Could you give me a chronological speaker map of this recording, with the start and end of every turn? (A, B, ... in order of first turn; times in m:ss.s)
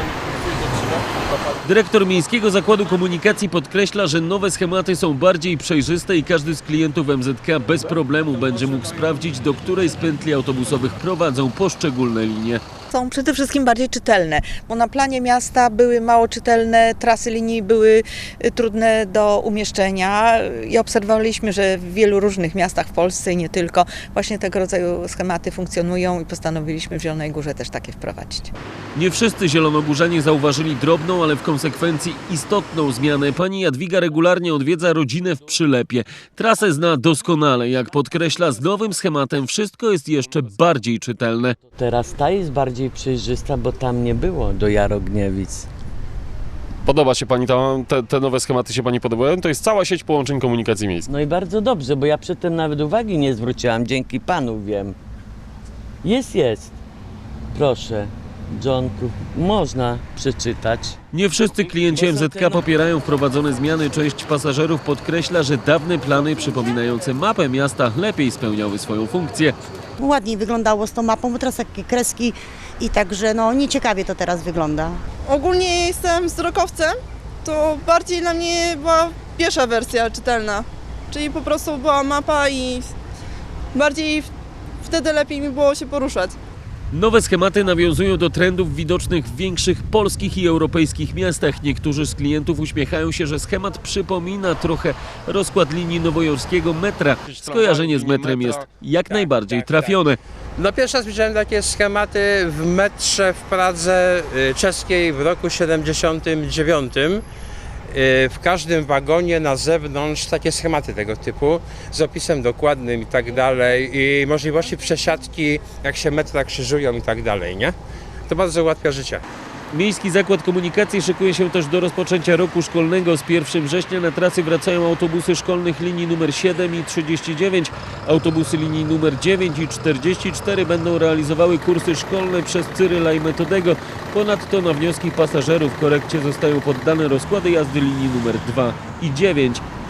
0:01.6-0:12.6 A
0:12.9-0:28.5 B
0:29.0-0:41.6 A
0:41.8-0:45.7 C
0:46.8-0:51.1 D
0:51.1-0:55.0 C
0:56.0-0:56.8 C
0:57.5-1:01.0 C
1:01.1-1:09.6 A
1:01.7-1:02.6 C
1:10.0-1:15.0 E
1:15.3-1:22.9 F
1:23.7-1:24.3 F
1:24.8-1:26.4 F
1:26.9-1:40.2 A
1:37.4-1:38.6 D
1:39.1-1:40.0 G
1:40.6-1:47.2 G
1:47.9-1:57.8 G
1:58.3-1:59.2 G
1:59.7-2:19.6 A